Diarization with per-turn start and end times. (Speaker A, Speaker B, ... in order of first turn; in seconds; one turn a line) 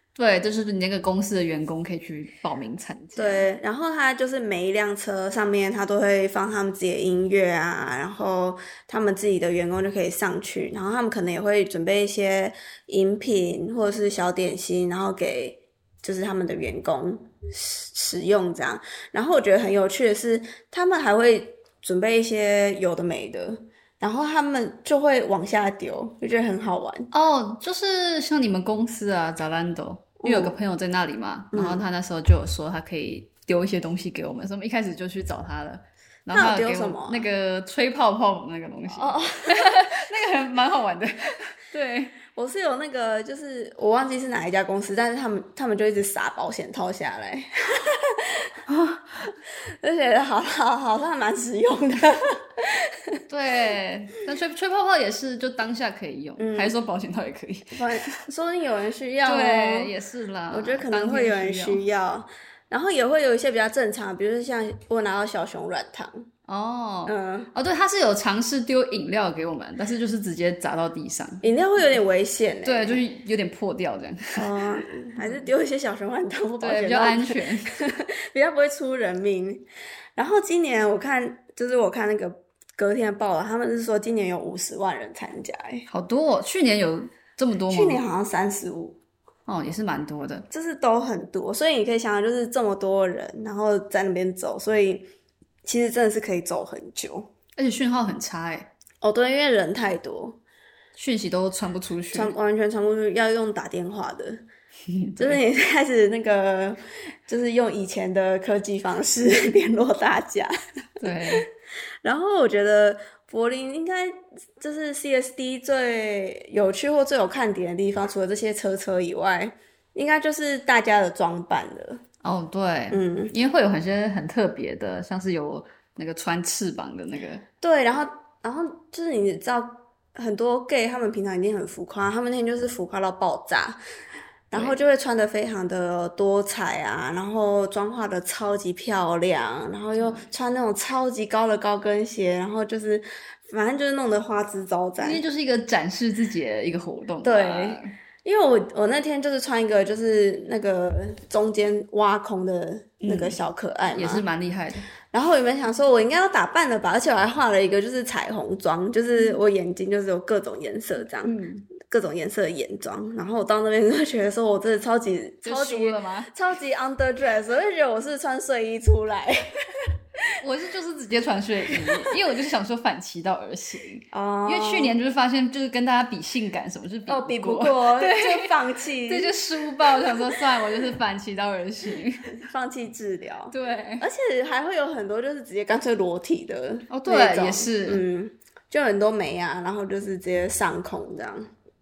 Speaker A: 0.2-3.5
Speaker B: 3.2-27.1
Speaker A: 27.1-42.1
Speaker B: 30.2-30.6
Speaker B: 31.5-31.8
Speaker B: 36.3-37.3
Speaker B: 38.9-40.0
Speaker B: 42.3-48.5
Speaker A: 48.7-49.3
Speaker B: 49.8-53.2
Speaker A: 53.3-58.2
Speaker B: 56.4-56.8
Speaker B: 57.7-59.9
Speaker A: 59.2-61.8
Speaker B: 60.5-66.3
Speaker A: 66.5-71.4
Speaker B: 67.1-67.5
Speaker B: 71.4-73.0
Speaker A: 72.7-74.5
Speaker B: 74.3-85.9
Speaker A: 76.6-77.7
Speaker A: 85.9-88.0
Speaker B: 87.7-89.0
Speaker A: 89.5-90.5
Speaker B: 90.5-95.1
Speaker B: 95.7-97.3
Speaker A: 97.6-98.7
Speaker B: 99.0-100.4
Speaker A: 101.0-102.3
Speaker B: 102.1-104.4
Speaker A: 104.9-105.4
Speaker B: 105.2-110.5
Speaker A: 111.0-111.5
Speaker B: 112.0-122.0
Speaker A: 122.2-127.4
Speaker B: 122.9-123.3
Speaker B: 127.6-133.8
Speaker B: 134.5-145.2
Speaker A: 134.5-134.8
Speaker A: 140.0-140.3
Speaker A: 145.0-147.9
Speaker B: 147.2-154.2
Speaker A: 153.0-153.4
Speaker A: 153.9-154.9
Speaker B: 155.1-169.4
Speaker A: 161.2-161.7
Speaker A: 165.4-166.3
Speaker A: 170.4-178.5
Speaker B: 171.7-172.1
Speaker B: 174.1-175.0
Speaker B: 177.1-180.7
Speaker A: 179.1-182.3
Speaker B: 182.3-191.5
Speaker A: 183.5-184.1
Speaker A: 186.9-188.0